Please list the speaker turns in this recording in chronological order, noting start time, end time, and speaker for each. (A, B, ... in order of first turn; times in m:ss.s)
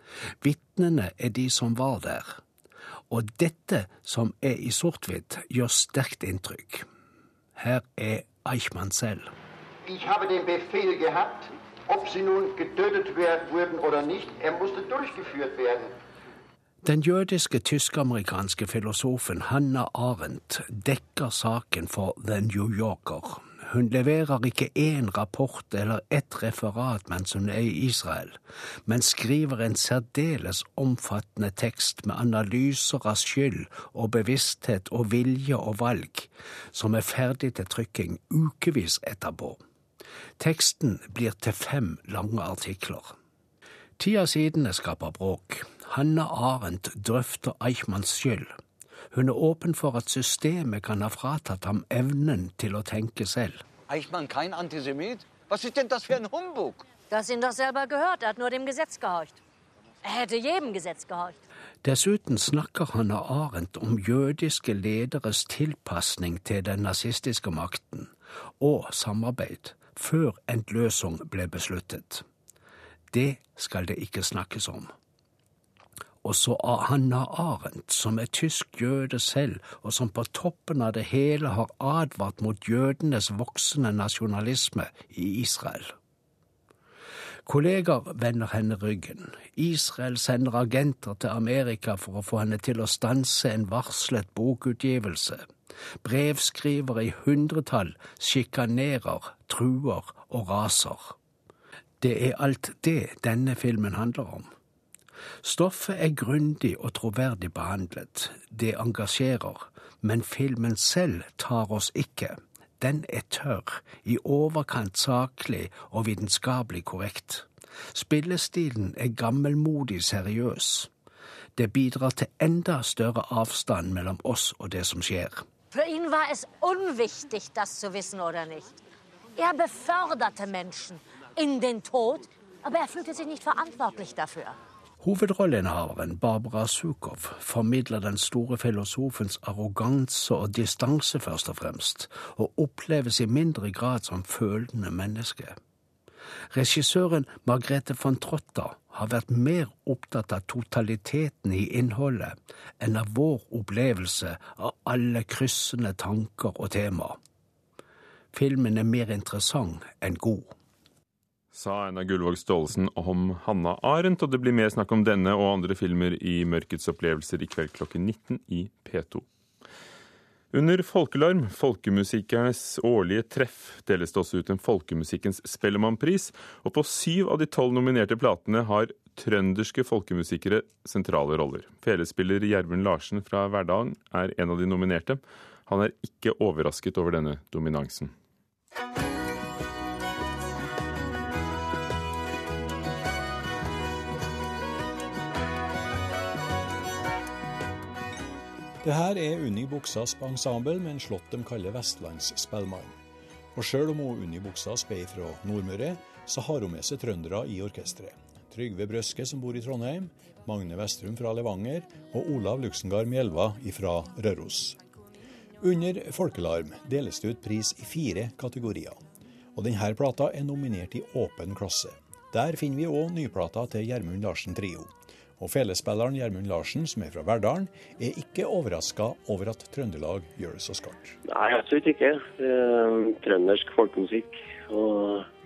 0:00.4-0:02.4 A
0:03.1-0:06.8 A
0:07.6-0:09.3 A
0:09.8-0:15.9 B
0:16.8-0:39.6 A
0:40.4-0:43.1 A
0:44.0-0:48.5 A
0:49.1-0:53.6 A
0:53.9-0:57.0 C
0:57.1-0:59.4 D
1:00.0-1:01.4 D
1:01.8-1:12.2 A
1:13.1-1:14.9 A
1:16.2-1:25.9 A
1:27.4-1:35.5 A
1:36.0-1:41.2 A
1:42.0-1:44.5 A
1:45.4-2:00.9 A
2:01.6-2:05.4 A
2:05.7-2:08.8 D
2:09.4-2:14.6 D
2:15.0-2:25.6 A
2:26.5-2:37.2 A
2:38.3-2:40.5 A
2:41.5-2:49.2 E
2:50.5-3:08.1 E
3:18.8-3:22.9 F
3:23.5-3:34.8 F
3:35.6-3:39.0 F
3:39.5-3:51.2 F
3:51.2-3:55.2 G